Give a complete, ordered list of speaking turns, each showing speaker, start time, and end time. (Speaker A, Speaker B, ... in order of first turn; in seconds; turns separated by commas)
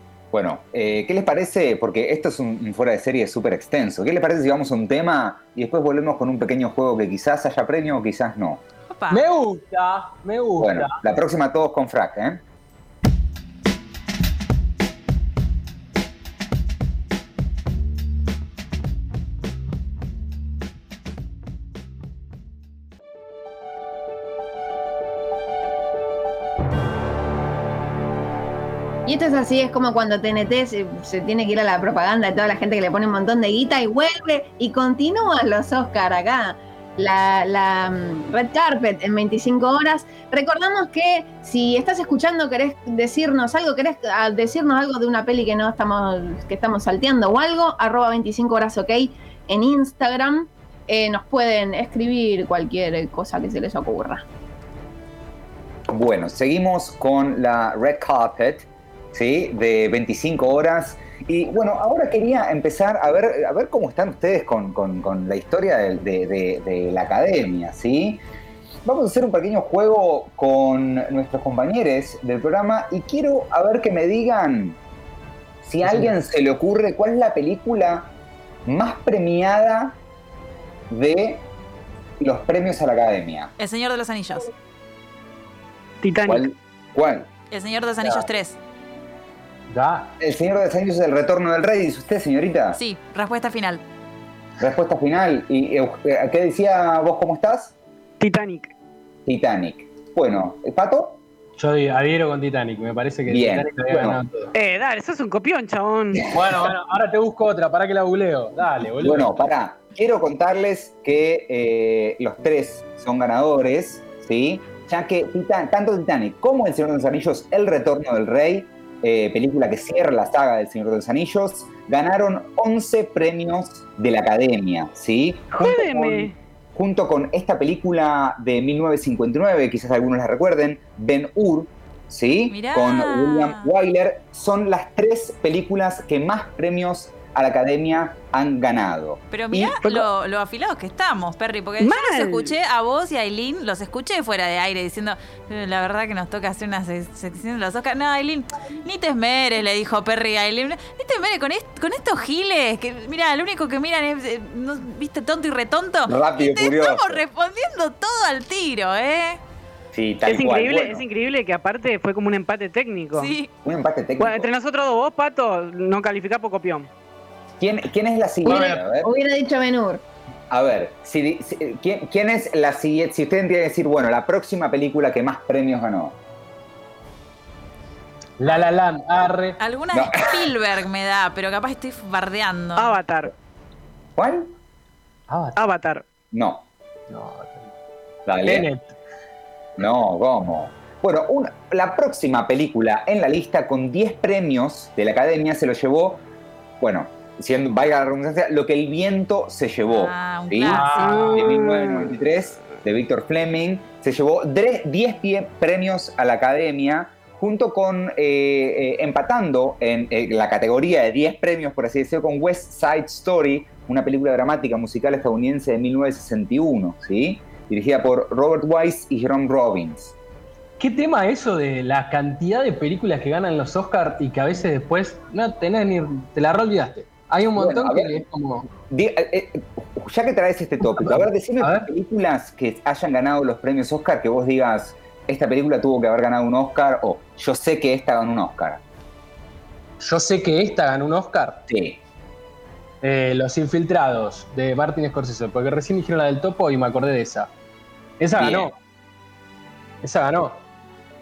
Speaker A: 0.3-8.6, Speaker B: 8.9-9.2, Speaker C: 9.1-11.0, Speaker A: 10.6-12.4, Speaker D: 29.1-54.2, Speaker A: 55.9-68.2, Speaker A: 68.8-74.8, Speaker A: 75.6-78.1, Speaker C: 75.8-76.1, Speaker A: 78.7-80.0, Speaker A: 80.9-81.4, Speaker A: 82.2-83.5, Speaker B: 83.6-84.5, Speaker E: 86.0-86.5, Speaker A: 86.2-87.3, Speaker B: 87.5-88.6, Speaker C: 89.7-90.1, Speaker A: 90.2-92.8, Speaker B: 92.7-93.8, Speaker A: 94.6-97.7, Speaker E: 98.2-98.7, Speaker A: 99.2-101.2, Speaker C: 101.6-104.5, Speaker A: 103.3-104.2, Speaker E: 104.5-106.3, Speaker C: 106.3-109.4, Speaker A: 109.0-140.1, Speaker E: 125.5-126.3, Speaker B: 132.5-133.7, Speaker B: 139.3-159.4, Speaker E: 141.8-142.5, Speaker A: 156.1-157.2, Speaker A: 159.9-161.0, Speaker E: 160.2-163.3, Speaker B: 163.1-163.5, Speaker A: 163.6-164.5, Speaker E: 164.2-166.9, Speaker A: 167.6-169.1, Speaker D: 168.4-170.0, Speaker C: 168.5-168.7, Speaker A: 170.5-176.1, Speaker C: 178.4-179.6, Speaker B: 179.6-183.0, Speaker A: 179.9-180.5, Speaker E: 182.8-183.3, Speaker A: 184.2-184.5, Speaker C: 185.3-185.6, Speaker E: 185.6-186.0, Speaker A: 186.3-186.6, Speaker C: 187.1-187.7, Speaker A: 188.2-188.7, Speaker C: 188.4-188.9, Speaker A: 189.8-196.2, Speaker A: 196.8-220.1, Speaker B: 199.9-201.3, Speaker C: 200.7-201.5, Speaker E: 201.0-202.1, Speaker C: 220.8-228.7, Speaker A: 227.5-228.2, Speaker A: 228.9-238.8, Speaker C: 230.8-231.9, Speaker C: 240.0-241.6, Speaker A: 241.7-242.0, Speaker C: 243.0-247.5, Speaker C: 248.2-248.7, Speaker A: 248.3-248.7, Speaker C: 250.0-250.6